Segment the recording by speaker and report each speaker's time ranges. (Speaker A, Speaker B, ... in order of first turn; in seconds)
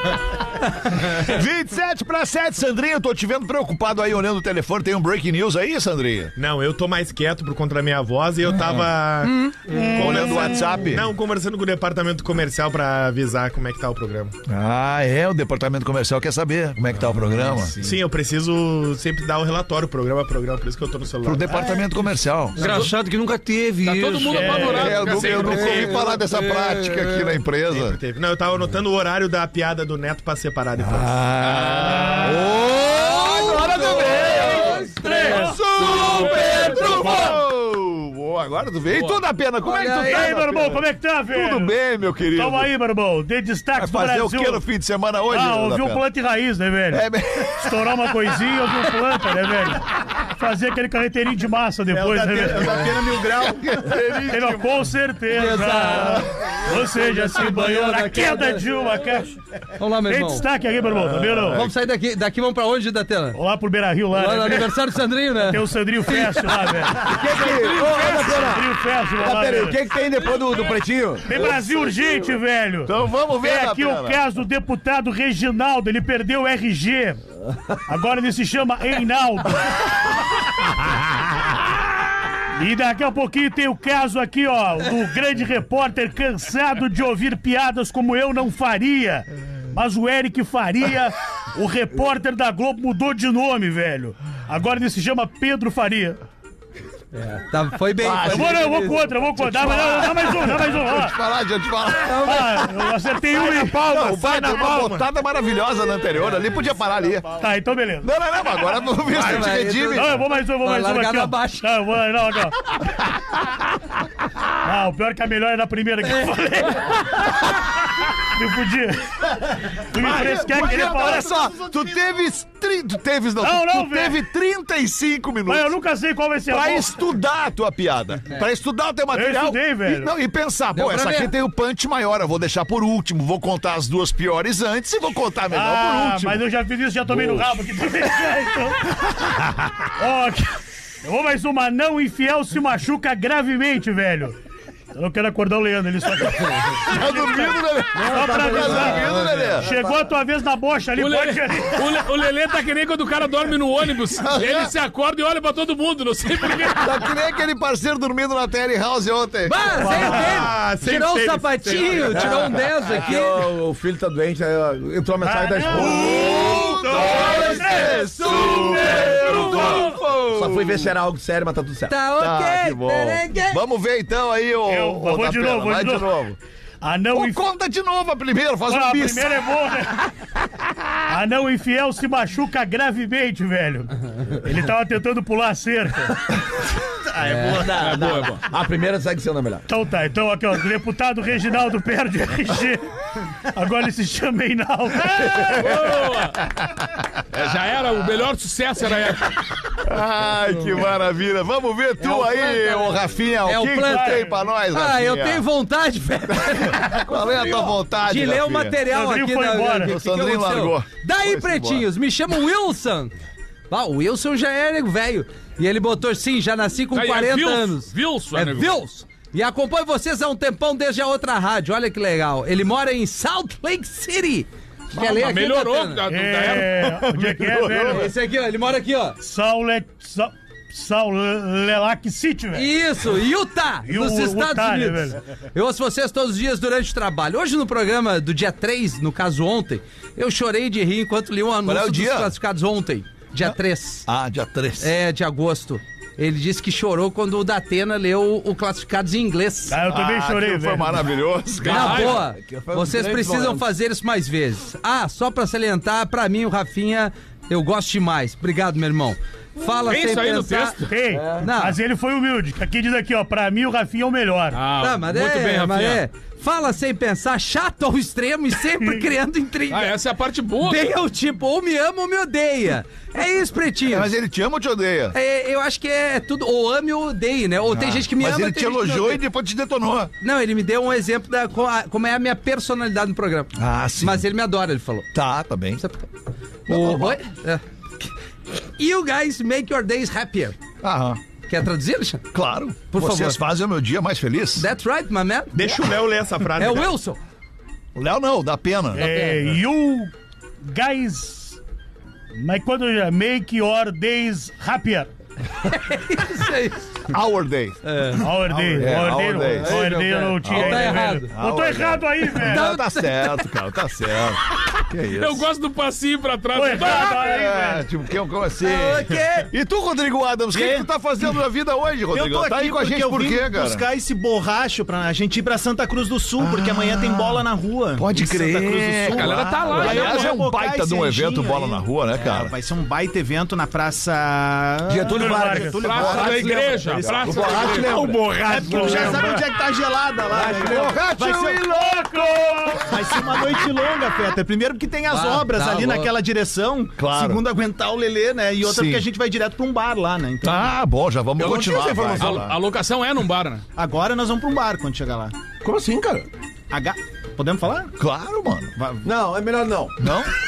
Speaker A: 1.0-6.3, 9.9-11.1, 14.5-17.8, 21.2-22.6, 24.7-28.0, 30.8-42.7, 43.8-46.0, 46.9-48.1, 53.2-54.9, 61.1-61.7, 72.9-74.2, 98.0-98.7, 99.4-102.6, 103.3-107.3, 108.0-110.1, 119.9-125.7, 126.5-136.4, 137.1-137.5, 146.8-149.7, 154.2-154.7, 156.8-159.8, 165.7-170.9, 172.2-176.4, 177.1-179.4, 199.8-205.4, 206.3-208.8, 209.8-211.8, 241.7-242.3, 243.4-244.9, 249.9-252.2, 273.9-275.1, 277.7-280.1, 283.6-284.3, 285.1-285.8, 286.7-287.2, 290.8-291.2, 292.3-294.7, 297.9-299.1, 307.1-307.8, 308.8-309.9, 310.4-315.5, 317.0-323.9, 326.4-327.4, 328.0-332.5, 340.5-342.8, 347.0-347.4, 348.6-349.1, 350.4-352.6, 358.0-358.7, 360.0-360.3
Speaker B: 6.4-14.3, 17.8-21.6, 27.7-31.2, 103.4-105.1, 159.9-162.6, 295.5-296.9
Speaker C: 9.7-10.8, 24.3-25.1, 32.0-32.4, 35.0-35.6, 36.9-37.2, 40.0-41.7, 42.3-44.6, 45.3-53.0, 54.3-59.4, 60.0-61.7, 63.3-64.7, 65.4-67.2, 68.0-69.8, 71.3-77.2, 77.9-79.9, 82.5-96.2, 98.2-101.2, 102.1-103.9, 107.4-108.1, 109.2-112.7, 114.6-121.4, 123.4-124.2, 125.5-126.9, 129.1-130.1, 135.5-139.1, 140.0-144.4, 144.9-152.0, 165.2-169.7, 174.7-176.1, 176.8-177.4, 178.7-180.1, 181.1-186.1, 189.7-192.9, 193.5-195.7, 203.7-204.3, 208.8-209.9, 226.1-228.1, 229.2-232.7, 233.8-235.2, 249.7-251.0, 260.9-264.6, 298.9-300.1, 300.6-301.6, 302.3-305.1, 308.2-312.7, 316.5-317.9, 335.1-335.9, 338.5-339.4, 341.7-342.9
Speaker D: 22.6-22.9, 23.8-25.9, 36.0-36.4, 38.9-39.2, 67.1-68.5, 70.2-70.8, 151.0-157.0, 168.7-169.9, 187.7-188.4, 195.4-196.4, 197.3-199.4, 216.9-218.8, 224.9-227.1, 251.6-252.2, 259.9-261.0, 264.5-266.0, 269.7-270.9, 315.2-317.4, 329.1-330.4, 335.8-338.1, 352.2-353.6
Speaker E: 22.6-24.7, 25.3-26.1, 337.9-339.2
Speaker F: 32.8-37.0, 39.7-40.4, 55.3-56.2, 57.3-58.6, 59.8-60.5, 61.5-63.4, 64.1-66.6, 97.2-100.0, 102.0-102.6, 109.1-111.7, 130.8-131.3, 159.5-163.5, 167.2-167.6, 171.9-173.6, 187.2-187.7, 202.0-202.9, 203.4-213.1, 213.7-226.0, 227.7-229.2, 232.5-244.1, 244.8-249.8, 251.7-260.8, 261.4-261.8, 264.8-269.9, 270.6-274.1, 275.1-279.2, 280.2-285.1, 285.8-286.1, 286.7-287.6, 288.8-290.6, 291.5-292.2, 292.9-293.4, 294.6-295.8, 296.6-297.2, 298.9-299.4, 305.7-307.0, 307.9-308.7, 309.9-311.3, 312.4-313.4, 318.6-319.5, 345.1-346.1
Speaker G: 33.3-34.8, 67.1-71.5, 147.9-149.9, 162.8-166.1, 169.2-169.7, 170.3-171.9, 187.3-189.7, 252.0-253.7, 261.1-261.5, 334.9-339.3, 340.3-341.0, 351.4-352.5, 355.6-356.3, 359.0-360.0
Speaker H: 51.9-53.6, 320.5-320.9, 322.1-337.8, 338.3-341.8, 342.8-350.7, 353.8-355.3, 356.7-357.9, 358.8-359.1